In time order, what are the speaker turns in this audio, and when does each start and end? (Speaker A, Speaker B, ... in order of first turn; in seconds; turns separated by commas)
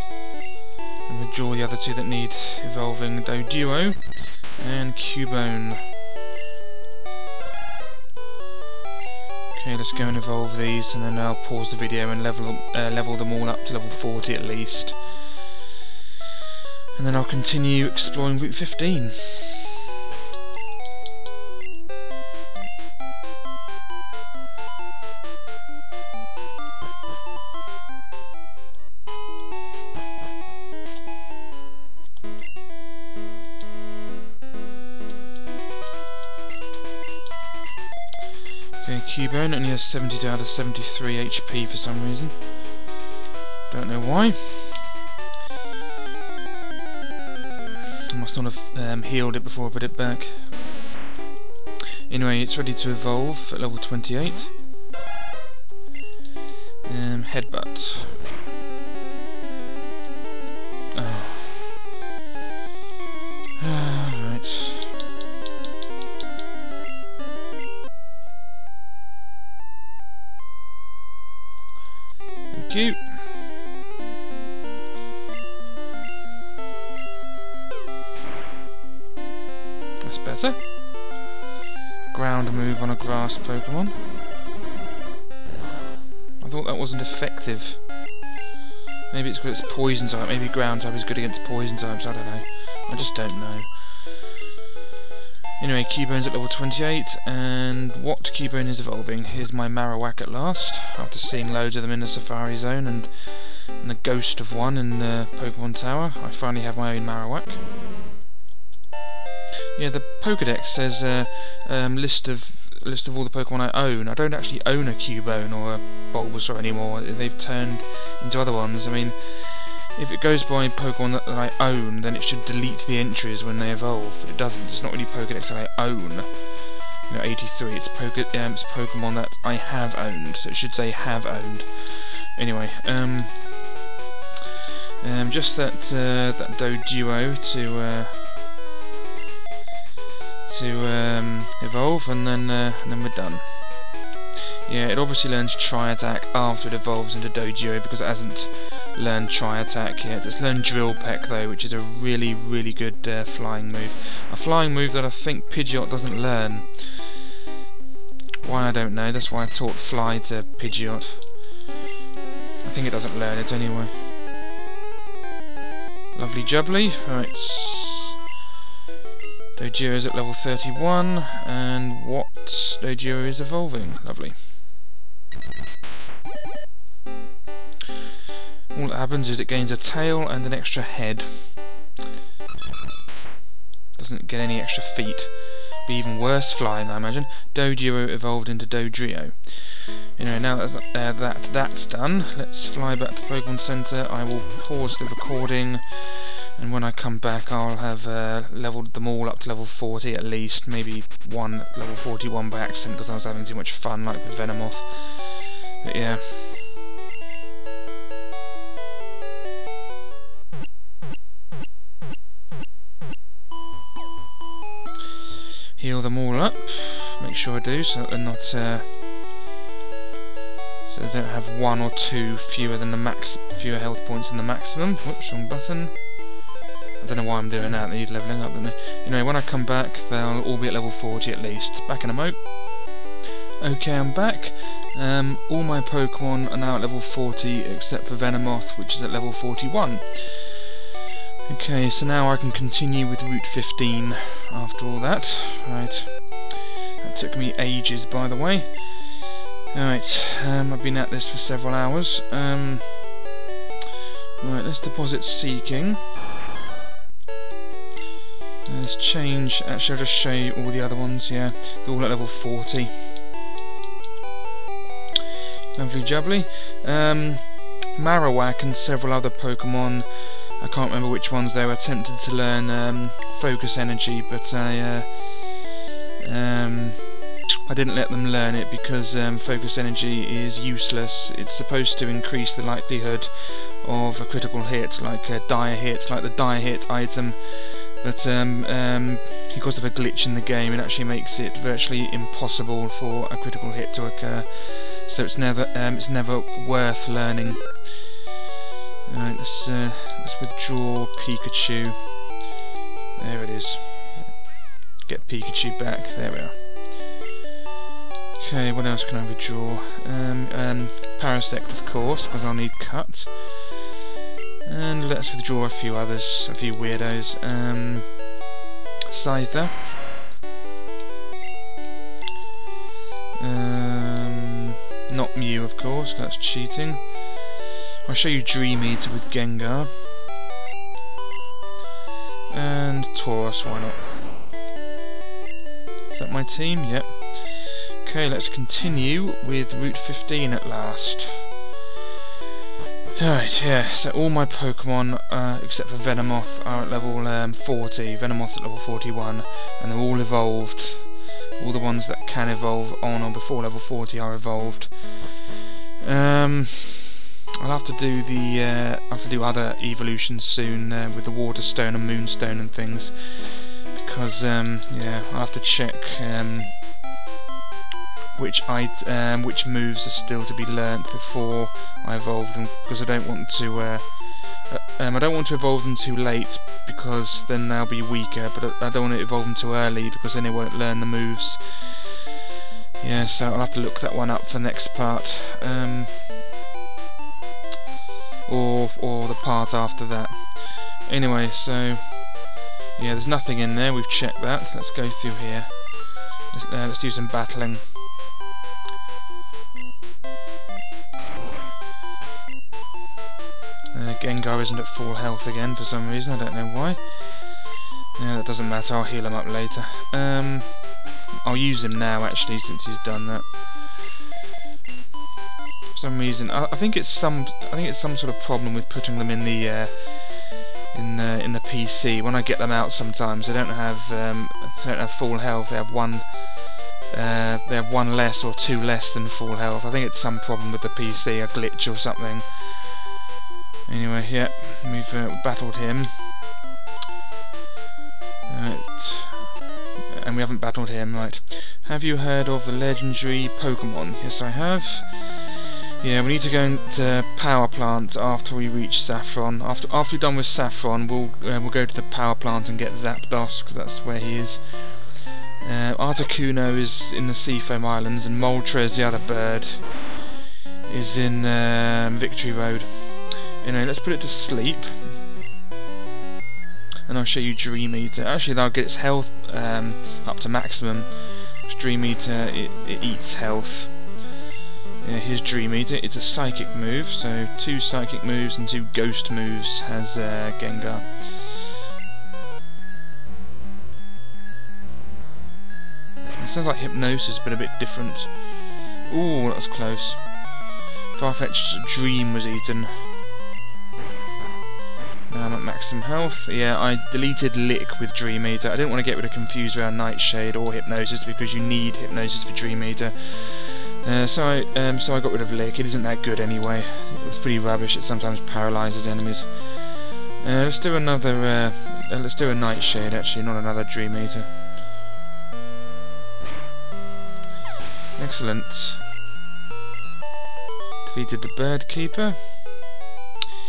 Speaker A: 1.1-5.8, Speaker A: 9.5-15.0, Speaker A: 16.9-19.6, Speaker A: 38.8-42.4, Speaker A: 43.7-44.8, Speaker A: 48.1-50.5, Speaker A: 52.1-54.5, Speaker A: 56.8-58.2, Speaker A: 60.9-61.7, Speaker A: 63.6-64.9, Speaker A: 72.5-73.1, Speaker A: 80.0-80.6, Speaker A: 82.1-84.0, Speaker A: 86.4-87.8, Speaker A: 89.1-93.7, Speaker A: 95.6-107.6, Speaker A: 109.7-126.5, Speaker A: 127.0-133.6, Speaker A: 135.0-138.2, Speaker A: 140.4-143.6, Speaker A: 144.6-157.1, Speaker A: 158.4-161.4, Speaker A: 162.6-163.9, Speaker A: 166.1-168.2, Speaker A: 169.6-174.4, Speaker A: 178.7-181.5, Speaker A: 183.9-206.6, Speaker A: 215.8-218.9, Speaker A: 220.9-226.1, Speaker A: 227.0-232.8, Speaker A: 233.6-240.7, Speaker A: 241.5-253.1, Speaker A: 254.4-256.0, Speaker A: 258.6-263.0, Speaker A: 265.7-275.6, Speaker A: 276.2-297.9, Speaker A: 299.1-302.0, Speaker A: 303.2-304.4, Speaker A: 305.0-306.6, Speaker A: 308.4-313.7, Speaker A: 314.6-318.2, Speaker A: 319.1-319.8, Speaker A: 323.4-327.4, Speaker A: 328.0-330.0, Speaker A: 332.5-334.1, Speaker A: 336.1-341.5, Speaker A: 343.1-355.4, Speaker A: 356.0-366.8, Speaker A: 368.3-382.1, Speaker A: 383.0-386.2, Speaker A: 388.4-397.9, Speaker A: 403.9-407.6, Speaker A: 408.1-413.7, Speaker A: 415.9-433.0, Speaker A: 433.9-436.1, Speaker A: 438.5-439.6, Speaker A: 440.1-460.1, Speaker A: 460.9-465.1, Speaker A: 467.1-474.0, Speaker A: 475.0-481.4, Speaker A: 486.4-488.4, Speaker A: 489.1-490.4, Speaker A: 491.1-493.1, Speaker A: 495.3-514.5, Speaker A: 518.1-519.0, Speaker A: 521.0-522.5